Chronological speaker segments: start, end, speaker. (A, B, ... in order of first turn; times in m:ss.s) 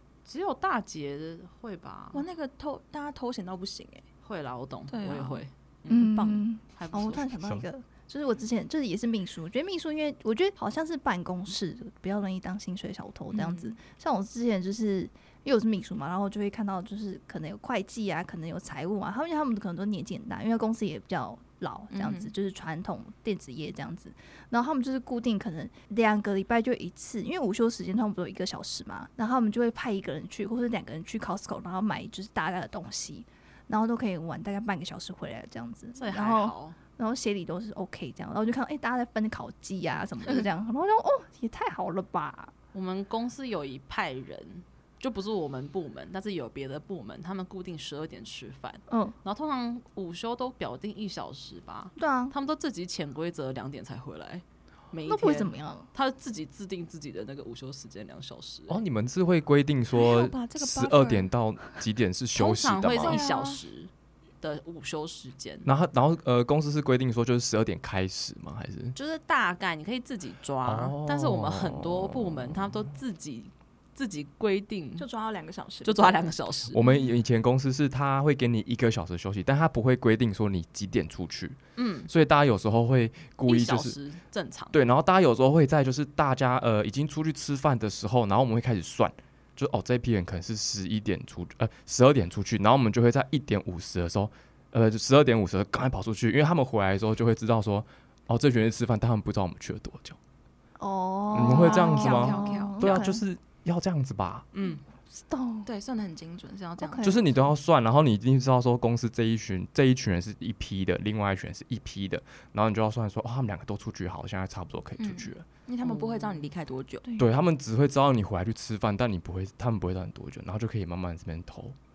0:00.3-0:02.2 A
0:02.1-0:04.0 B
0:04.2-0:06.1 A
0:04.9-0:06.4 B
0:05.9-0:42.5 C
0:06.7-0:07.3 A
0:13.3-0:13.8 B
0:21.9-0:22.3 B
0:36.0-0:36.8 A
0:42.7-0:58.8 A
0:48.9-0:49.2 C
0:52.0-0:52.3 C
0:55.1-0:55.9 C
0:58.7-1:03.2 D
0:59.9-1:01.3 B
1:02.4-1:05.7 A
1:03.0-1:03.6 B
1:05.6-1:09.0 D
1:09.0-1:15.1 A
1:10.6-1:12.8 D
1:15.0-1:16.3 B
1:15.8-1:16.8 A
1:16.7-1:24.0 D
1:21.8-1:22.1 A
1:23.4-1:24.8 A
1:24.7-1:40.2 D
1:40.8-1:43.2 C
1:41.3-1:44.5 D
1:41.3-1:43.1 B
1:44.5-1:44.8 A
1:45.1-1:45.7 C
1:45.6-1:47.2 B
1:46.8-1:47.2 C
1:47.0-1:55.4 D
1:55.0-1:57.1 B
1:55.8-1:56.5 A
1:57.0-1:57.3 C
1:57.2-2:01.8 D